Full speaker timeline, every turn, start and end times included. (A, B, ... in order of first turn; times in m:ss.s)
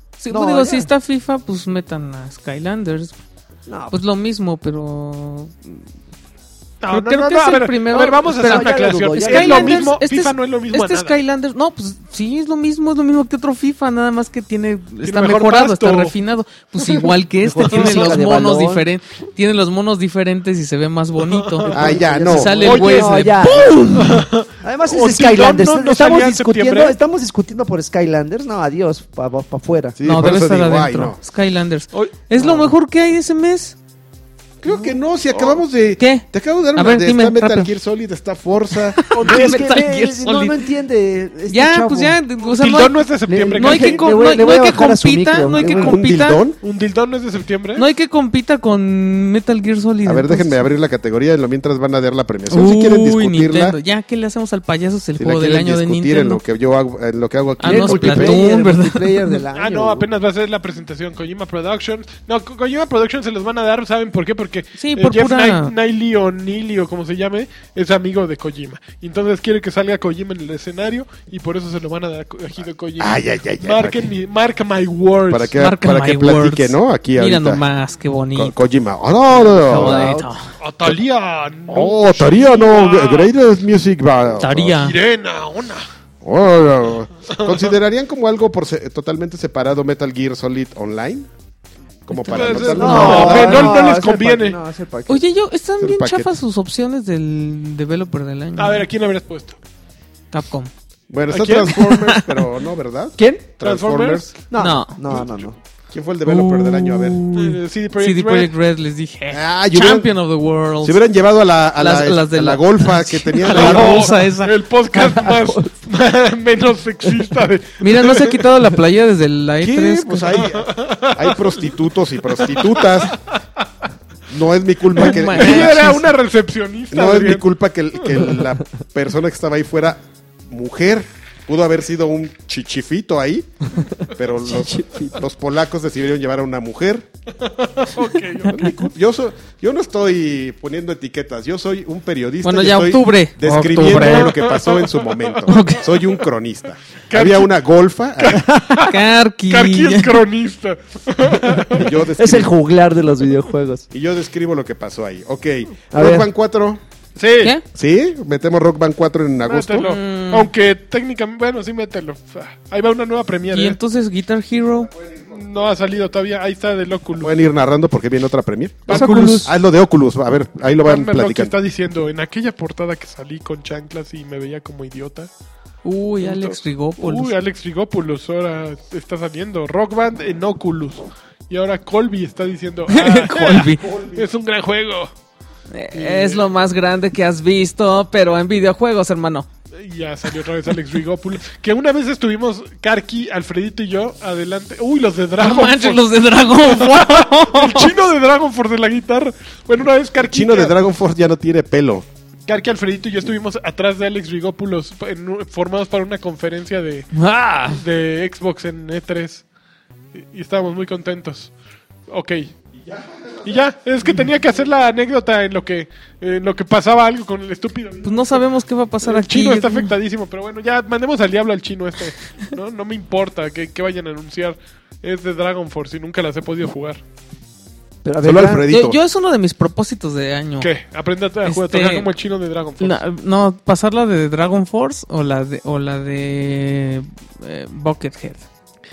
0:00.2-0:03.2 A
0:00.3-0:00.9 B
0:03.7-0:04.0 B
0:03.9-0:05.8 A
0:06.8-0:11.2 C
0:06.9-0:24.2 A
0:08.4-0:09.9 B
0:15.0-0:16.1 C
0:17.4-0:18.9 B
0:17.7-0:18.2 C
0:21.3-0:22.0 C
0:21.7-0:30.0 B
0:21.7-0:22.5 D
0:22.5-0:23.3 C
0:23.9-0:27.0 C
0:30.0-0:31.2 D
0:30.0-0:33.8 A
0:32.4-0:32.7 B
0:34.6-0:39.0 D
0:35.4-0:35.6 C
0:36.0-0:37.7 A
0:39.0-0:40.7 A
0:39.1-0:39.8 C
0:39.2-0:42.2 B
0:41.5-0:46.4 A
0:42.5-0:44.2 C
0:43.3-0:46.0 B
0:45.6-0:46.6 D
0:46.6-0:47.8 C
0:47.8-0:50.7 A
0:50.0-0:53.8 D
0:52.5-0:56.4 A
0:55.2-0:58.4 D
0:57.6-0:59.4 A
0:57.6-1:00.1 B
0:59.5-1:15.6 C
1:04.8-1:05.7 A
1:13.0-1:14.1 D
1:15.3-1:17.6 D
1:15.6-1:18.5 A
1:18.4-1:20.2 D
1:19.3-1:20.3 B
1:19.5-1:20.5 A
1:20.6-1:23.3 C
1:21.7-1:24.8 D
1:24.4-1:25.0 A
1:24.8-1:25.9 C
1:26.2-1:31.3 D
1:27.3-1:27.7 C
1:32.1-1:33.7 D
1:32.1-1:33.7 A
1:32.3-1:34.6 C
1:32.7-1:35.2 B
1:35.1-1:38.9 A
1:35.8-1:36.3 D
1:38.6-1:39.6 C
1:40.3-1:40.7 A
1:41.1-1:44.3 D
1:41.3-1:41.9 C
1:41.7-1:42.5 A
1:43.2-1:43.5 B
1:43.6-1:44.3 C
1:44.5-1:45.6 B
1:44.6-1:45.0 A
1:45.9-1:47.2 D
1:46.2-1:51.1 A
1:47.3-1:48.5 C
1:49.3-1:50.1 D
1:50.8-1:54.1 D
1:51.8-1:54.6 A
1:53.4-1:58.5 C
1:54.9-1:55.7 B
1:57.8-2:00.5 A
1:59.6-2:03.2 D
2:00.3-2:03.4 C
2:04.3-2:06.0 D
2:04.9-2:06.1 A
2:05.0-2:07.5 C
2:06.9-2:17.1 D
2:08.0-2:08.3 C
2:14.4-2:15.2 B
2:17.4-2:18.7 C
2:18.5-2:28.5 D
2:22.4-2:24.4 A
2:23.8-2:26.2 C
2:25.5-2:25.8 A
2:27.1-2:27.5 C
2:28.2-2:31.9 C
2:28.4-2:28.7 B
2:28.8-2:30.2 A
2:31.7-2:32.5 D
2:32.0-2:33.9 B
2:33.9-2:36.8 D
2:35.9-2:36.3 B
2:37.2-2:37.6 C
2:37.7-2:39.9 D
2:39.4-2:43.8 C
2:39.8-2:40.5 A
2:43.5-2:44.9 A
2:45.3-2:47.3 C
2:47.2-2:51.5 D
2:48.9-2:49.5 C
2:48.9-2:49.5 B
2:48.9-2:49.3 A
2:50.8-2:55.3 C
2:55.8-2:57.3 A
2:56.2-3:05.1 C
3:02.9-3:03.9 A
3:03.8-3:04.2 D
3:05.7-3:09.5 A
3:05.9-3:06.5 C
3:09.8-3:20.8 C
3:15.4-3:17.9 A
3:20.3-3:22.1 D
3:22.5-3:29.4 C
3:27.1-3:27.8 A
3:30.2-3:31.5 C
3:32.1-3:32.5 C
3:33.4-3:38.4 C
3:38.0-3:39.9 A
3:39.0-3:47.0 C
3:48.0-3:48.7 B
3:48.2-3:49.0 D
3:48.7-3:50.7 A
3:50.6-3:53.0 C
3:51.4-3:52.1 A
3:52.8-3:58.5 A